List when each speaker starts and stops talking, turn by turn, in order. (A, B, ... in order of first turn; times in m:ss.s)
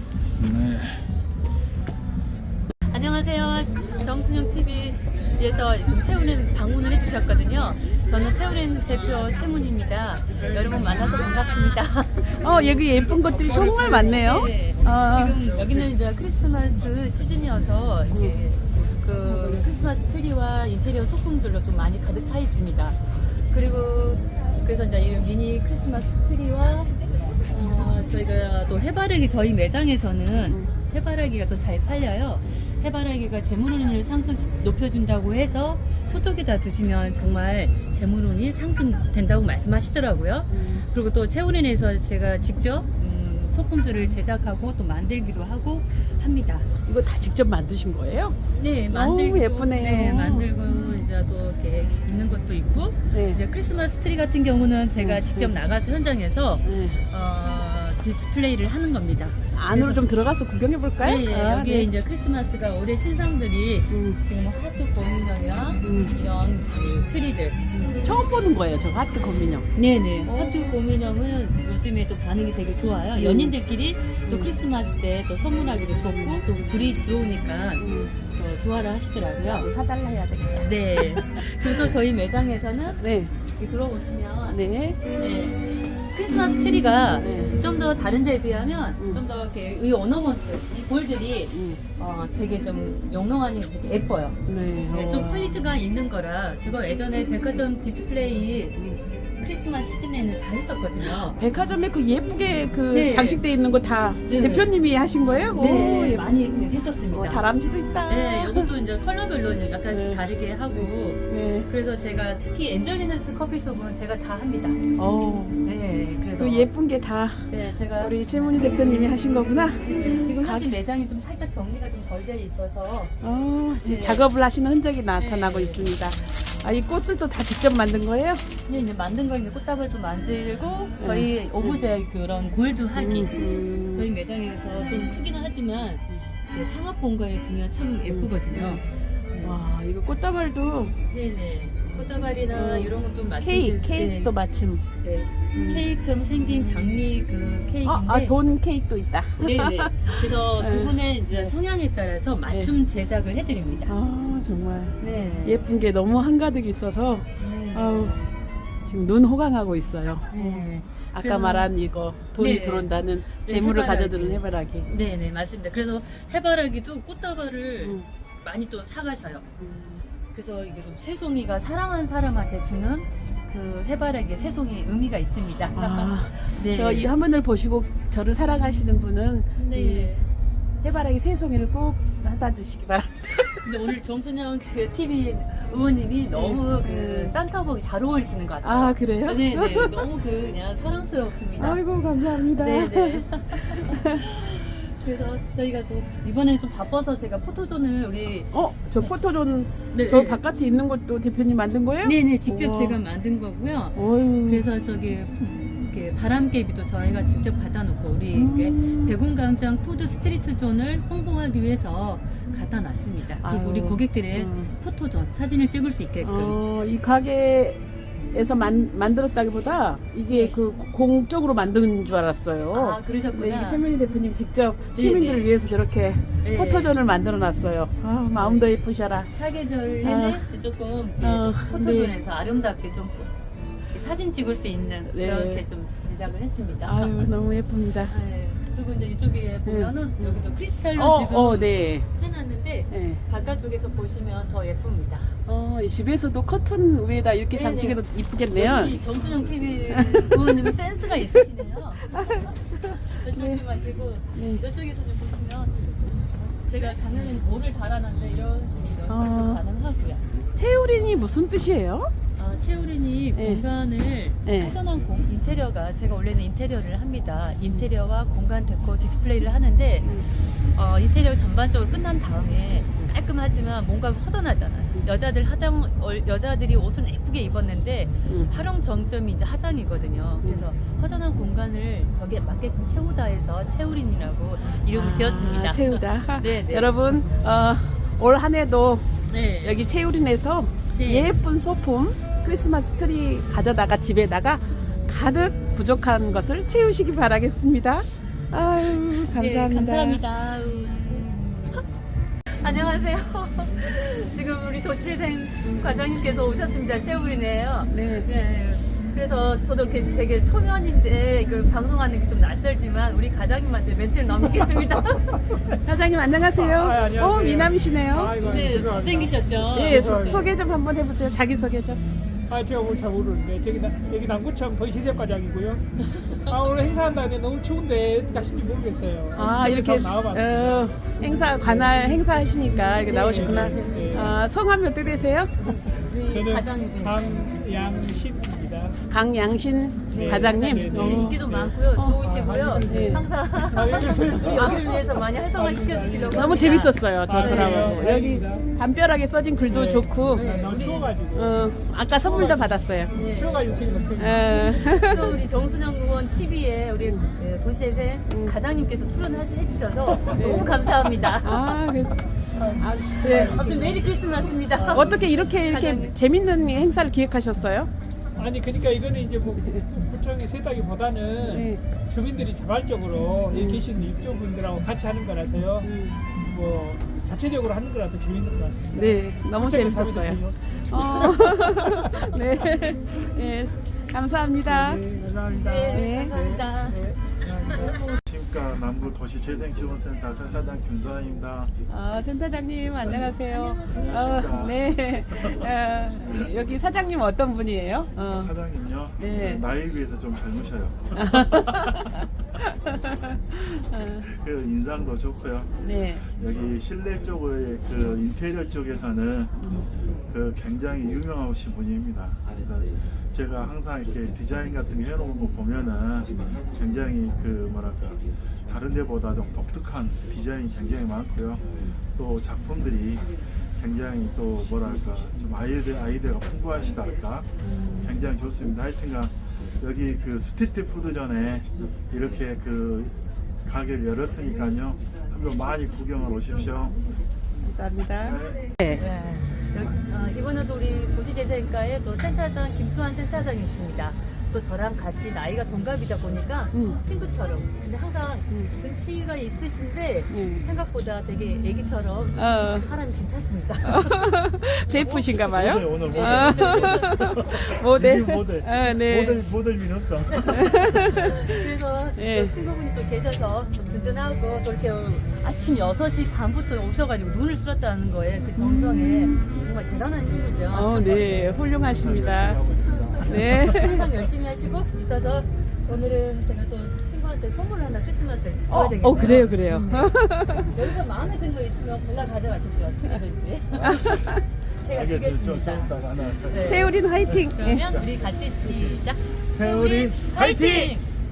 0:00.4-0:01.1 A
0:02.9-0:26.9 B
0:12.3-0:15.8 C
0:18.1-0:18.4 C
0:19.2-0:19.6 C
0:27.4-0:46.7 B
0:40.5-0:40.8 C
0:46.8-0:48.4 C
0:48.5-1:00.1 B
0:48.9-0:50.5 C
0:53.1-0:53.4 C
0:55.0-0:55.5 C
0:56.6-0:57.0 C
0:59.5-1:01.9 C
1:01.0-1:07.6 B
1:03.9-1:04.2 C
1:05.8-1:06.1 C
1:07.7-1:09.6 C
1:09.7-1:19.7 B
1:10.2-1:10.7 C
1:13.2-1:13.5 C
1:16.1-1:16.4 C
1:17.8-1:18.1 C
1:19.4-1:21.9 C
1:20.5-1:41.4 B
1:23.0-1:23.3 C
1:24.5-1:25.0 C
1:27.2-1:27.5 C
1:31.5-1:31.8 C
1:34.5-1:35.6 C
1:41.0-1:46.4 C
1:42.9-1:43.4 B
1:44.2-1:44.7 B
1:45.5-1:47.4 B
1:47.1-1:48.7 C
1:48.1-1:54.8 B
1:49.9-1:50.2 C
1:50.7-1:51.7 C
1:55.0-1:55.6 C
1:55.6-1:56.7 B
1:56.4-2:00.7 C
1:57.5-1:58.9 B
1:59.8-2:03.1 B
2:03.2-2:08.4 C
2:03.8-2:04.3 B
2:05.2-2:06.5 B
2:08.7-2:13.3 B
2:11.0-2:11.8 C
2:13.0-2:14.1 C
2:13.9-2:19.6 B
2:18.1-2:18.8 C
2:19.4-2:20.9 C
2:20.9-2:24.3 B
2:21.9-2:24.8 C
2:25.0-2:28.3 B
2:25.5-2:25.8 C
2:26.5-2:27.0 C
2:27.8-2:31.5 C
2:29.4-2:33.9 B
2:33.9-2:38.2 C
2:35.0-2:35.6 B
2:37.4-2:38.2 B
2:38.8-2:44.9 C
2:40.3-2:41.7 B
2:42.4-2:49.5 B
2:49.6-2:50.0 C
2:50.3-2:57.1 B
2:55.7-3:00.1 C
2:59.6-3:00.3 B
3:00.8-3:03.9 C
3:03.6-3:19.1 B
3:06.3-3:07.4 C
3:08.6-3:10.0 C
3:11.6-3:14.2 C
3:18.5-3:23.0 C
3:19.9-3:20.4 B
3:22.0-3:36.6 B
3:23.9-3:24.6 C
3:28.3-3:29.1 C
3:33.4-3:34.7 C
3:36.2-3:49.3 C
3:40.3-3:40.6 B
3:42.7-3:43.8 B
3:44.9-3:45.5 B
3:46.4-3:47.0 B
3:48.3-3:53.3 B
3:50.0-3:50.4 C
3:51.2-3:52.1 C
3:53.9-3:57.3 B
3:55.0-3:55.6 C
3:56.8-3:58.1 C
3:58.1-4:05.3 B
3:59.6-4:02.1 C
4:02.9-4:03.2 C
4:05.4-4:09.0 C
4:07.5-4:20.2 B
4:09.9-4:10.7 C
4:12.1-4:13.6 C
4:14.3-4:14.6 C
4:19.1-4:19.6 C
4:20.5-4:22.1 C
4:22.4-4:47.0 B
4:23.4-4:23.6 C
4:24.4-4:24.7 C
4:38.2-4:38.5 C
4:44.9-5:00.2 C
4:49.3-4:49.8 B
4:50.9-4:51.3 B
4:58.8-5:01.9 B
5:02.6-5:15.8 B
5:07.9-5:08.3 C
5:15.7-5:18.3 C
5:16.5-5:20.5 D
5:18.4-5:20.5 B
5:19.6-5:22.0 C
5:22.5-5:25.8 D
5:26.1-5:26.5 B
5:26.4-5:32.2 D
5:29.3-5:35.5 C
5:33.0-5:34.3 D
5:33.0-5:34.4 B
5:35.7-5:37.3 B
5:35.7-5:39.0 D
5:39.1-5:41.4 C
5:40.1-5:48.1 B
5:40.1-5:48.7 D
5:41.9-5:42.2 C
5:42.8-5:43.2 C
5:46.3-5:50.4 C
5:49.7-5:55.4 D
5:50.4-5:51.2 B
5:51.3-5:53.1 C
5:53.1-5:53.8 B
5:54.2-5:55.4 C
5:54.5-6:01.9 B
5:57.0-5:57.3 C
5:58.3-5:58.5 C
6:00.3-6:00.6 D
6:00.3-6:00.7 C
6:01.4-6:03.6 C
6:02.5-6:05.4 D
6:03.2-6:06.2 B
6:04.9-6:07.9 C
6:08.4-6:22.6 D
6:11.4-6:11.8 C
6:13.5-6:13.8 C
6:15.8-6:16.2 C
6:18.9-6:25.0 C
6:24.6-6:28.2 D
6:25.5-6:27.0 B
6:25.9-6:26.4 C
6:28.2-6:31.7 A
6:31.9-6:38.5 C
6:33.4-6:34.6 B
6:33.8-6:36.5 A
6:38.3-6:42.1 A
6:39.2-6:39.6 C
6:41.1-6:44.3 C
6:44.0-7:17.0 A
6:45.8-6:46.2 C
6:49.6-6:49.9 C
7:07.6-7:08.1 C
7:17.6-7:19.0 C
7:18.2-7:18.7 A
7:18.9-7:34.3 B
7:26.7-7:27.0 C
7:30.3-7:30.6 C
7:32.4-7:32.9 C
7:33.8-7:39.4 C
7:35.0-7:37.2 B
7:35.0-7:41.2 A
7:40.3-7:51.3 B
7:40.5-7:41.5 C
7:42.2-7:42.5 C
7:48.6-7:49.3 C
7:50.7-7:52.6 C
7:51.2-7:54.2 A
7:53.0-8:05.9 B
7:53.2-7:54.0 C
7:58.7-8:00.7 C
7:59.1-7:59.6 A
8:03.7-8:11.0 A
8:03.8-8:04.4 C
8:06.5-8:06.9 B
8:06.6-8:07.9 C
8:07.5-8:11.0 B